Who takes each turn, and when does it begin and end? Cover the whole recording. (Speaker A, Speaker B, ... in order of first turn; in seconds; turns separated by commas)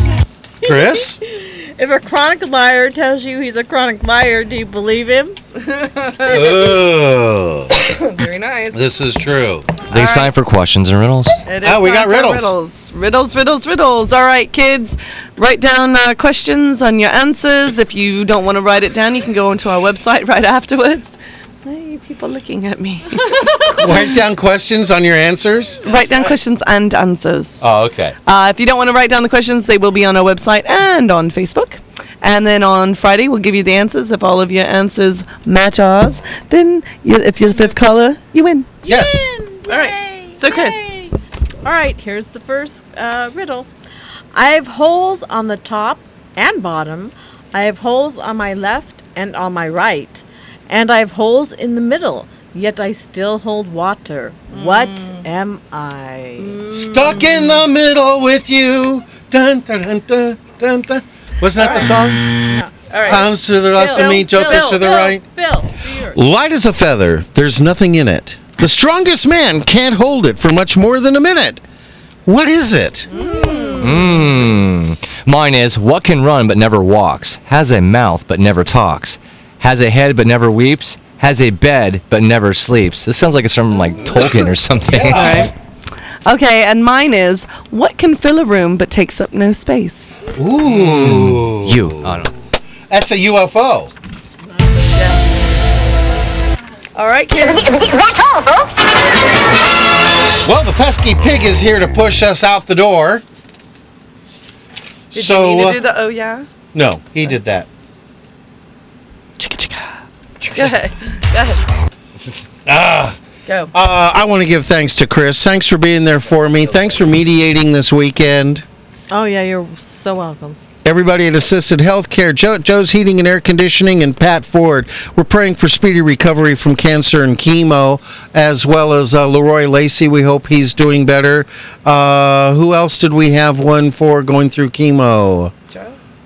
Speaker A: 0.6-5.4, Speaker B: 0.6-1.2, Speaker C: 5.7-6.7, Speaker B: 6.3-7.8, Speaker C: 7.8-8.8, Speaker B: 8.7-9.7, Speaker D: 9.9-11.4, Speaker C: 9.9-10.3, Speaker C: 11.5-23.5, Speaker B: 11.6-12.5, Speaker B: 23.7-25.9, Speaker C: 25.8-27.6, Speaker B: 27.6-28.1, Speaker C: 28.3-38.7, Speaker A: 38.8-43.7, Speaker B: 38.9-39.3, Speaker C: 39.7-41.0, Speaker A: 44.3-56.7, Speaker C: 54.5-55.2, Speaker C: 56.4-57.6, Speaker B: 56.7-62.5, Speaker C: 61.6-61.9, Speaker A: 62.5-66.2, Speaker C: 62.9-65.0, Speaker B: 63.1-65.2, Speaker B: 66.1-71.6, Speaker B: 72.3-73.1, Speaker C: 73.1-74.2, Speaker A: 73.1-74.2, Speaker D: 73.8-85.4, Speaker B: 84.9-85.5, Speaker C: 85.0-85.5, Speaker C: 86.2-90.2, Speaker B: 90.3-92.3, Speaker D: 90.7-92.3, Speaker B: 92.9-93.9, Speaker C: 95.0-95.3, Speaker C: 97.0-97.9, Speaker B: 100.4-103.2, Speaker B: 105.1-105.8, Speaker C: 105.1-106.5, Speaker B: 106.7-107.7, Speaker C: 109.4-111.6, Speaker B: 110.4-110.7, Speaker B: 112.7-113.2, Speaker C: 113.5-113.7, Speaker B: 113.7-118.7, Speaker A: 119.1-120.6, Speaker B: 120.8-135.5, Speaker C: 135.7-136.0